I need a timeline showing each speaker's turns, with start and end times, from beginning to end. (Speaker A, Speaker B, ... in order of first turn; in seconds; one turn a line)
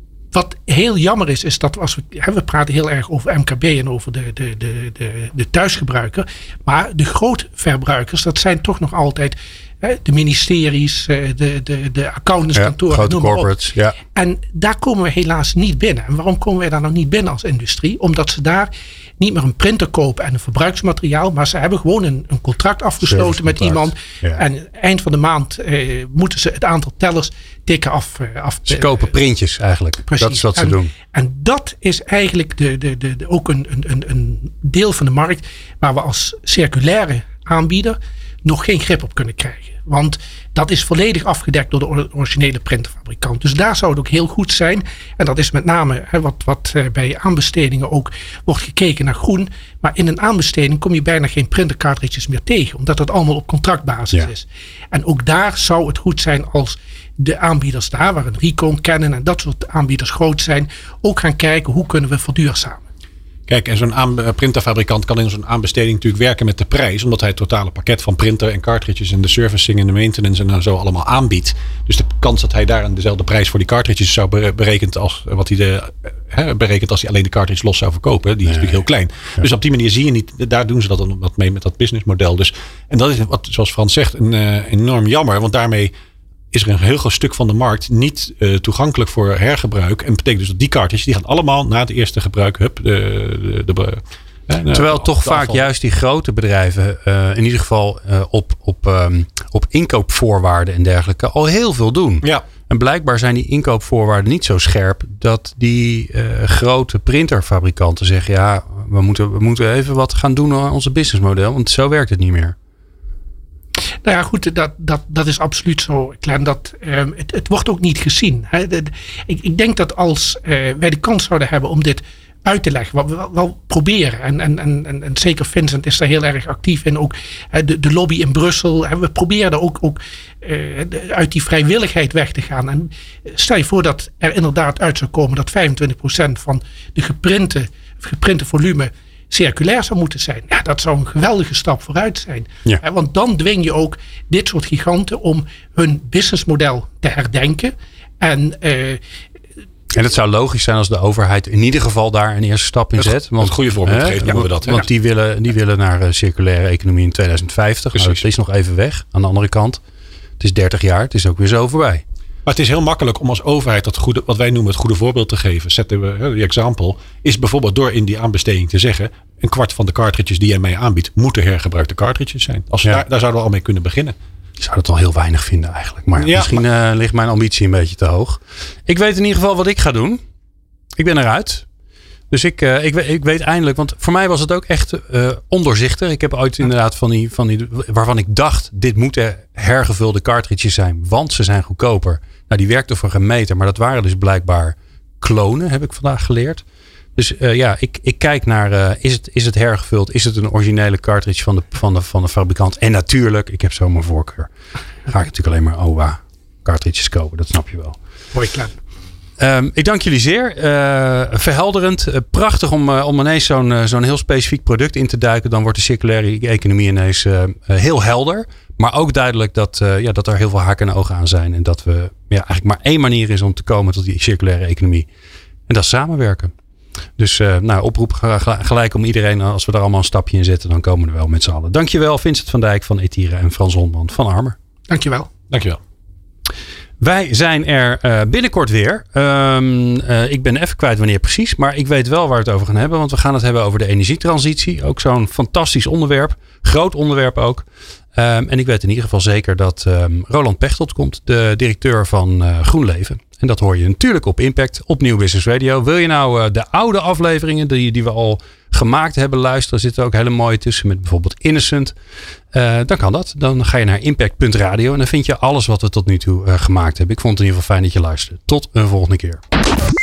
Speaker A: 0.3-13.5
Speaker B: 12.6-13.9
Speaker A: 14.1-29.1
Speaker B: 23.0-24.4
Speaker B: 28.7-30.9
Speaker A: 30.1-62.8
Speaker C: 63.5-85.9
Speaker C: 86.5-95.6
Speaker B: 94.7-112.5
Speaker A: 114.0-149.0
Speaker B: 149.9-159.8
Speaker C: 153.0-154.9
Speaker C: 157.9-158.2
Speaker B: 160.4-162.0
Speaker C: 162.4-174.1
Speaker B: 174.6-180.2
Speaker C: 176.2-176.6
Speaker B: 180.9-181.6
Speaker B: 182.3-196.6
Speaker B: 197.2-204.5
Speaker B: 205.1-208.0
Speaker A: 208.3-208.7
Speaker B: 209.4-225.1
Speaker B: 225.7-226.5
Speaker B: 227.2-234.6
Speaker A: 234.9-235.3
Speaker C: 235.5-235.8
Speaker B: 237.0-261.9
Speaker B: 262.5-269.4